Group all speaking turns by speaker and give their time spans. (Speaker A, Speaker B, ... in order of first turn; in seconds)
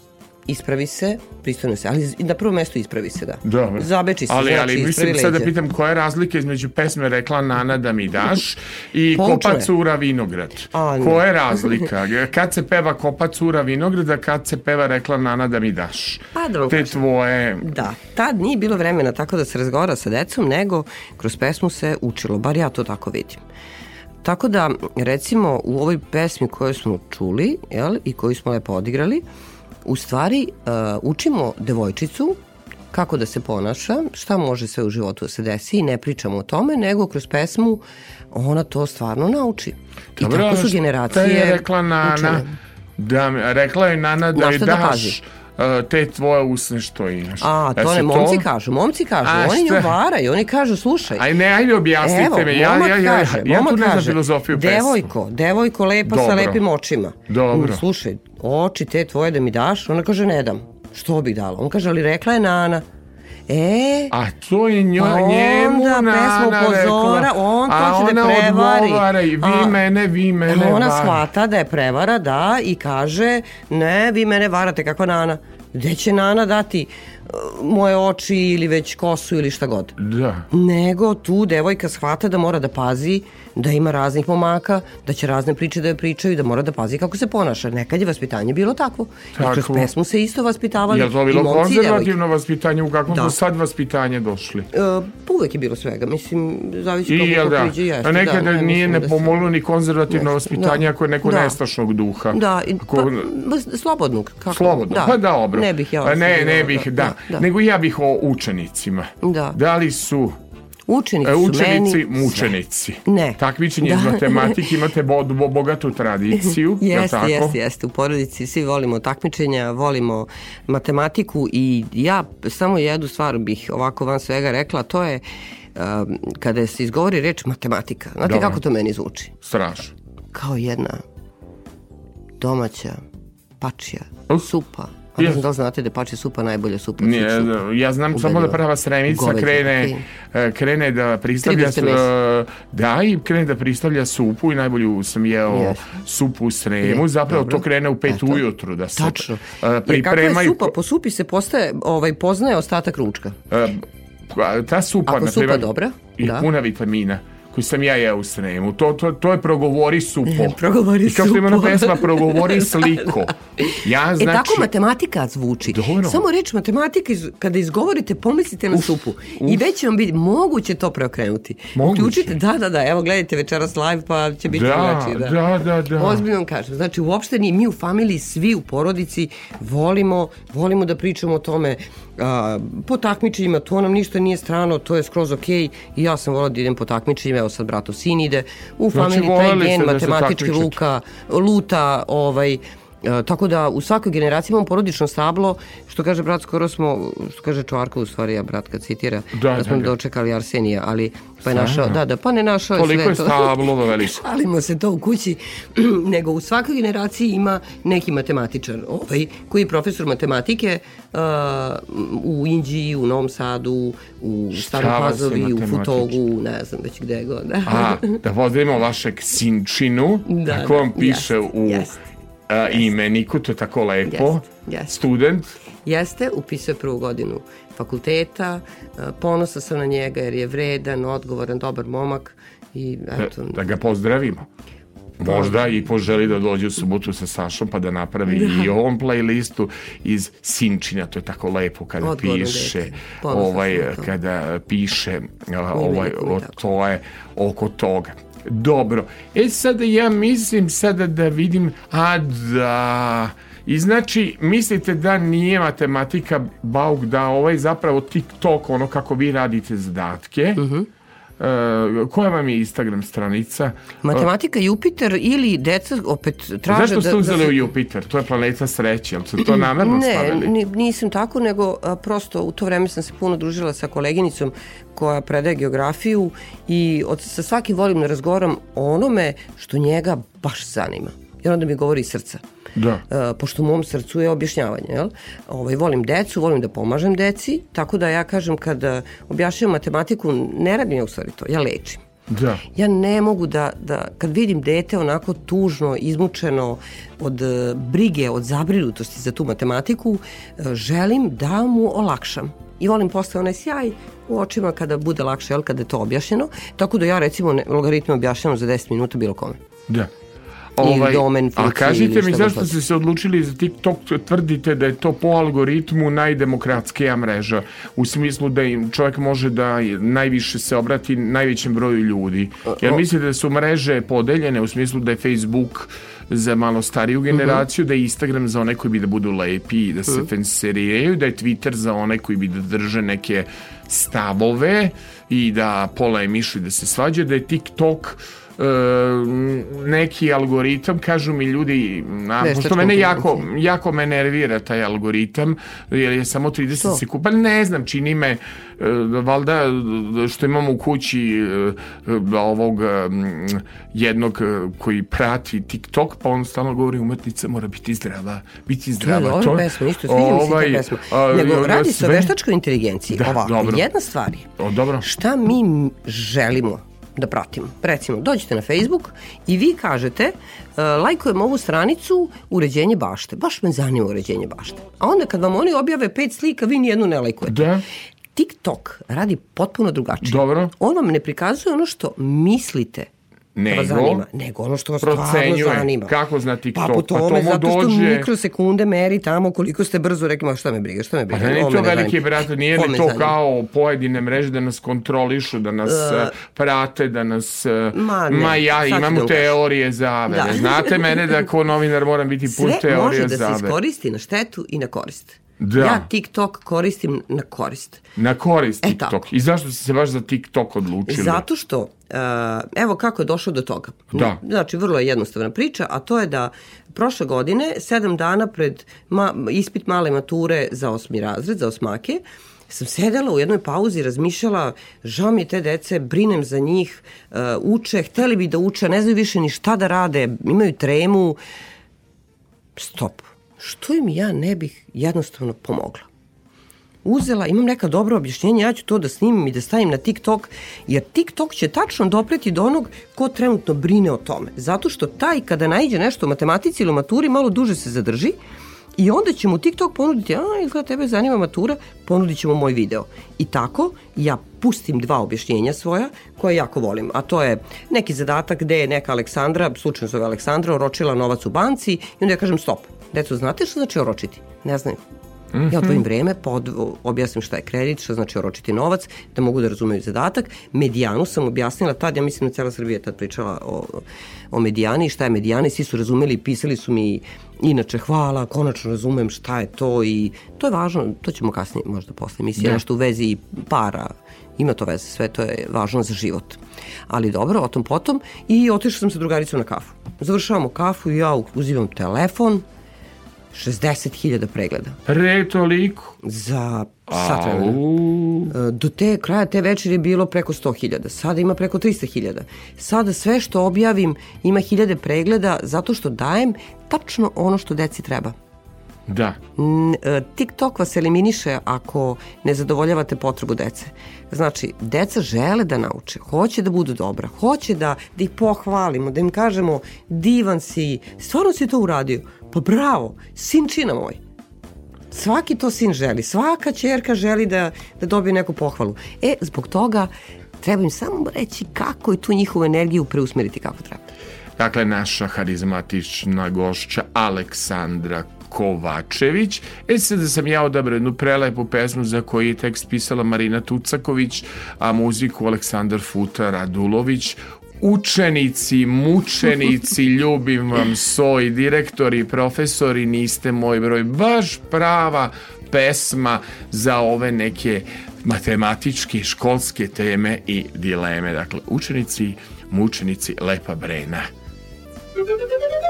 Speaker A: 0.5-5.5, 9.2-9.7, 10.7-11.8, 16.4-17.0, 17.6-23.4, 24.2-29.2, 29.9-32.4, 32.9-42.5, 44.4-45.2, 47.4-51.3, 52.0-62.9, 63.5-64.1, 65.0-69.8, 70.5-80.0, 80.5-92.1, 93.1-93.4, 94.7-99.4, 100.1-101.6, 102.3-107.5, 109.2-109.6, 110.9-114.6, 116.4-125.2, 125.8-129.3, 130.3-131.0, 132.4-133.0, 133.6-137.5, 138.1-140.1, 141.4-142.1, 145.5-145.8, 146.8-148.4, 149.0-153.4, 155.1-156.5, 160.3-163.1, 163.6-175.4, 176.0-218.2, 220.3-221.9, 224.1-224.9, 225.8-233.6, 235.3-235.5, 238.3-238.7, 242.0-244.1, 245.7-246.6, 260.6-260.9, 264.0-267.6, 269.5-282.4, 283.1-292.0, 292.8-309.6, 310.8-312.7, 322.7-323.0, 342.4-343.4, 359.0-364.5, 365.0-377.7, 378.4-383.1, 383.7-386.1, 386.7-393.4, 395.9-396.4, 397.9-399.6, 400.3-401.2, 402.4-408.0, 408.8-409.2, 411.1-431.4, 432.8-436.1, 437.1-448.4, 448.9-465.0, 465.7-492.6, 493.5-495.0, 496.2-497.8, 498.5-508.4, 509.6-524.2, 525.1-534.1
Speaker B: 3.4-17.7, 40.2-42.5, 43.0-48.5, 49.2-49.9, 51.1-55.1, 56.1-56.6, 57.3-57.8, 64.1-71.3, 80.0-80.5, 89.4-89.9, 90.9-94.7, 97.1-103.3, 104.5-110.4, 111.2-117.6, 128.2-128.6, 129.4-129.9, 135.2-135.4, 137.0-150.8, 153.5-164.7, 165.6-166.2, 168.7-169.6, 171.8-172.4, 174.5-176.3, 188.9-190.8, 199.3-199.9, 201.4-202.0, 202.8-204.2, 214.5-216.2, 217.7-221.9, 222.5-225.6, 233.2-234.5, 235.2-260.6, 261.4-264.3, 266.7-270.5, 282.8-283.0, 292.3-292.6, 310.8-362.3, 363.1-363.9, 364.6-365.1, 377.5-377.8, 380.2-380.7, 383.6-384.2, 385.0-388.3, 391.3-403.8, 405.6-406.1, 408.2-411.4, 414.1-414.4, 465.5-466.0, 495.1-496.2, 497.1-498.5, 509.1-509.4, 534.6-564.3